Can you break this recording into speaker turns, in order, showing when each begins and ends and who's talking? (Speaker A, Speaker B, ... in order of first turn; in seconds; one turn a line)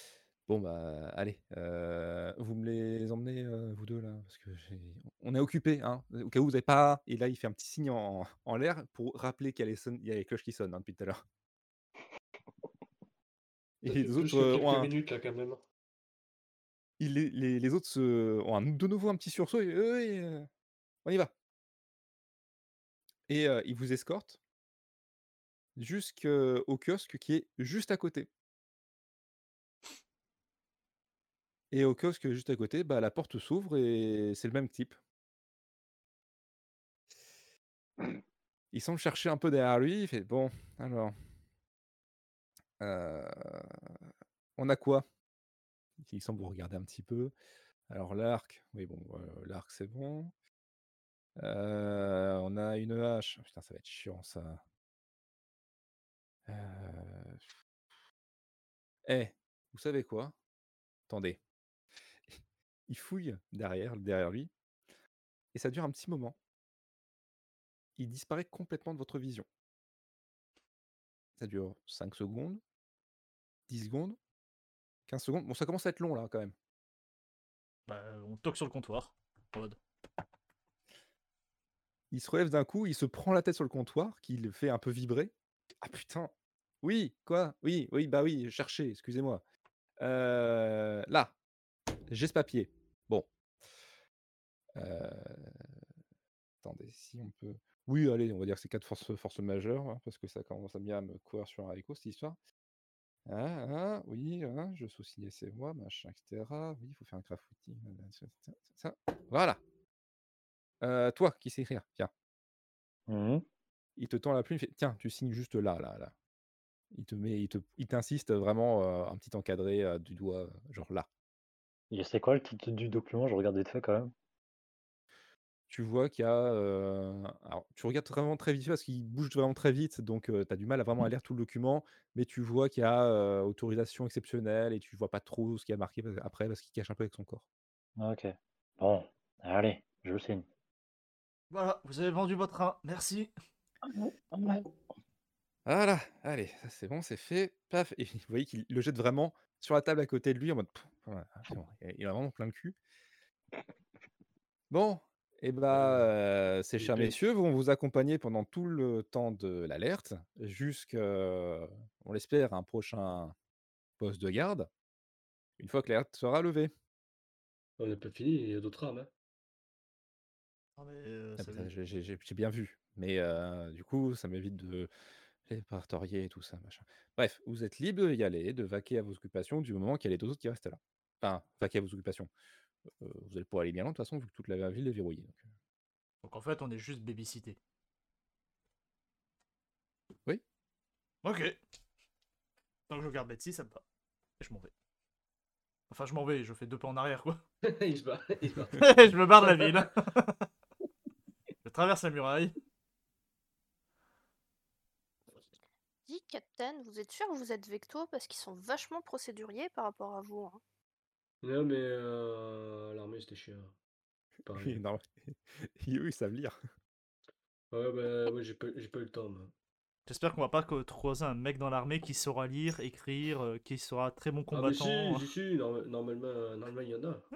Speaker A: 0.5-11.2
Speaker A: 13.8-14.9
Speaker B: 13.8-15.6
Speaker A: 17.0-20.5
Speaker A: 21.0-21.3
Speaker A: 23.3-24.4
Speaker A: 25.8-28.3
Speaker A: 31.7-35.0
Speaker A: 38.7-41.1
Speaker A: 42.8-43.9
Speaker A: 44.6-45.0
Speaker A: 46.0-47.3
Speaker A: 47.9-50.3
Speaker A: 51.4-54.6
Speaker A: 56.5-57.4
Speaker A: 59.0-60.3
Speaker A: 61.1-61.4
Speaker A: 62.3-64.5
Speaker A: 65.5-66.3
Speaker A: 68.0-69.5
Speaker A: 71.4-72.6
Speaker A: 73.7-74.2
Speaker A: 75.1-76.5
Speaker C: 77.9-79.8
Speaker A: 82.1-89.4
Speaker A: 90.0-91.3
Speaker A: 92.1-93.3
Speaker A: 94.8-95.6
Speaker A: 96.6-102.4
Speaker A: 103.2-109.6
Speaker A: 110.8-112.1
Speaker D: 113.1-113.4
Speaker A: 114.0-116.1
Speaker A: 116.9-121.1
Speaker D: 121.9-124.1
Speaker A: 125.7-137.4
Speaker D: 138.0-140.4
Speaker C: 141.5-143.3
Speaker D: 143.8-144.7
Speaker A: 145.7-152.8
Speaker A: 154.7-163.3
Speaker B: 155.7-156.1
Speaker B: 156.8-157.2
Speaker A: 164.0-164.7
Speaker A: 165.6-166.7
Speaker B: 167.8-169.1
Speaker C: 170.8-171.7
Speaker A: 171.4-174.9
Speaker A: 175.4-182.3
Speaker A: 183.0-185.5
Speaker C: 186.2-187.6
Speaker C: 191.2-191.6
Speaker C: 192.9-193.8
Speaker C: 194.4-194.7
Speaker C: 195.9-197.4
Speaker B: 197.6-198.8
Speaker C: 198.7-200.5
Speaker B: 199.5-199.8
Speaker C: 201.6-202.5
Speaker E: 206.1-210.6
Speaker B: 211.4-213.7
Speaker B: 214.4-214.8
Speaker A: 214.5-216.6
Speaker B: 217.7-219.5
Speaker C: 220.1-225.2
Speaker B: 224.5-227.3